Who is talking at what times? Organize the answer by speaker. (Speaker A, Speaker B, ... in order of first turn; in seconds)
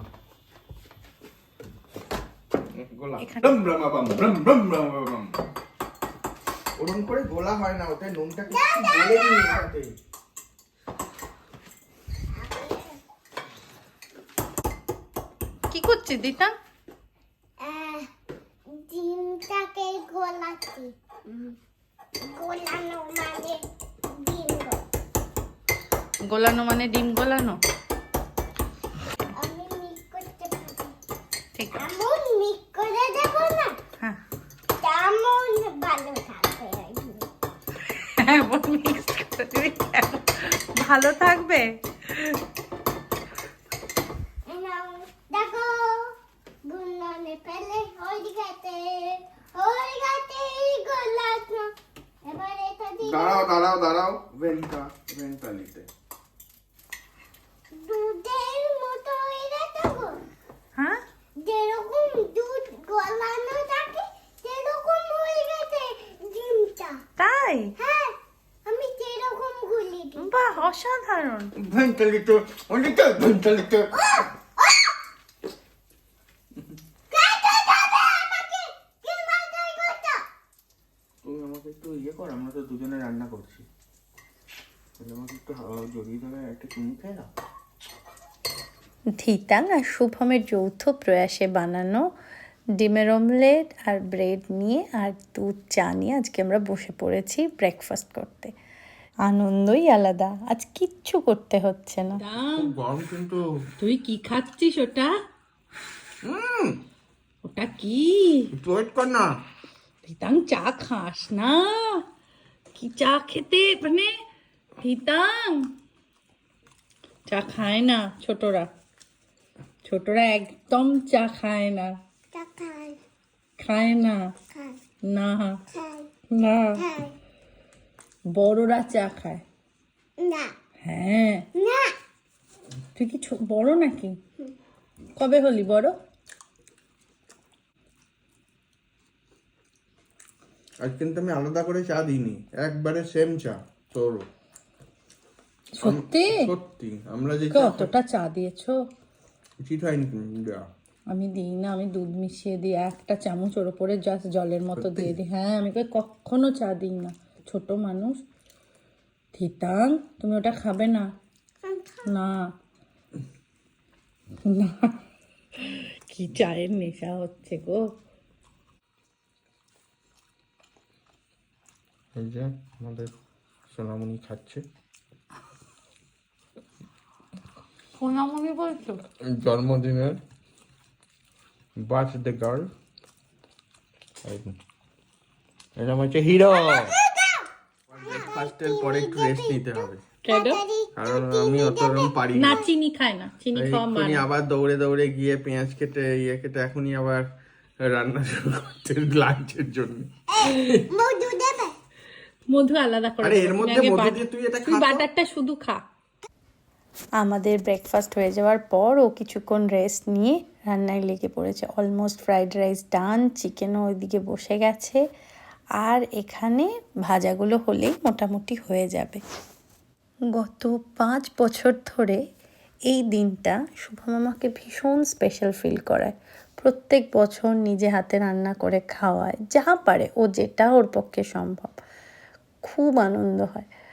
Speaker A: 2.7-5.4, 6.8-9.9, 53.0-55.9, 71.6-73.9, 81.2-83.7, 85.0-87.3, 102.5-103.5, 106.2-106.8, 108.5-109.4, 140.8-144.3, 145.8-147.9, 149.6-150.7, 154.8-155.1, 172.2-173.1, 173.7-174.6, 179.2-180.2, 181.8-182.7, 184.2-184.6, 185.8-186.9, 187.9-190.0, 191.0-192.6, 193.6-197.3, 197.8-200.7, 203.2-205.1
Speaker B: 3.2-3.6, 15.7-16.6, 26.2-27.6, 31.6-31.9, 38.0-42.4, 67.2-67.7, 70.2-71.5, 102.2-102.8, 103.8-105.1, 107.4-108.5, 110.0-112.0, 112.8-114.1, 114.8-115.7, 117.3-118.7, 119.8-122.0, 123.6-124.3, 125.0-125.6, 126.3-126.8, 128.3-129.4, 130.8-131.5, 133.0-134.2, 135.2-135.9, 145.7-146.5, 147.5-148.8, 151.1-158.2, 159.3-161.1, 162.1-162.5, 164.4-165.0, 165.6-167.9, 178.0-179.0, 190.2-190.6, 192.3-194.3, 202.5-205.8
Speaker C: 8.5-9.6, 12.3-13.0, 17.6-18.1, 18.7-21.5, 22.2-24.8, 29.4-31.0, 31.7-33.8, 34.8-37.3, 44.5-46.1, 46.6-51.7, 52.2-53.5, 57.7-60.2, 61.4-67.0, 67.8-70.3, 73.9-75.0, 77.1-80.2, 122.3-123.0, 124.5-124.8, 125.7-126.1, 126.8-127.2, 130.2-130.5, 131.6-131.9, 161.6-162.1, 186.5-187.5, 188.0-192.7, 200.3-201.8
Speaker D: 89.2-92.0, 92.8-98.5, 99.3-102.2, 207.2-215.0, 215.8-219.2, 220.3-222.2, 222.9-231.8, 232.6-233.7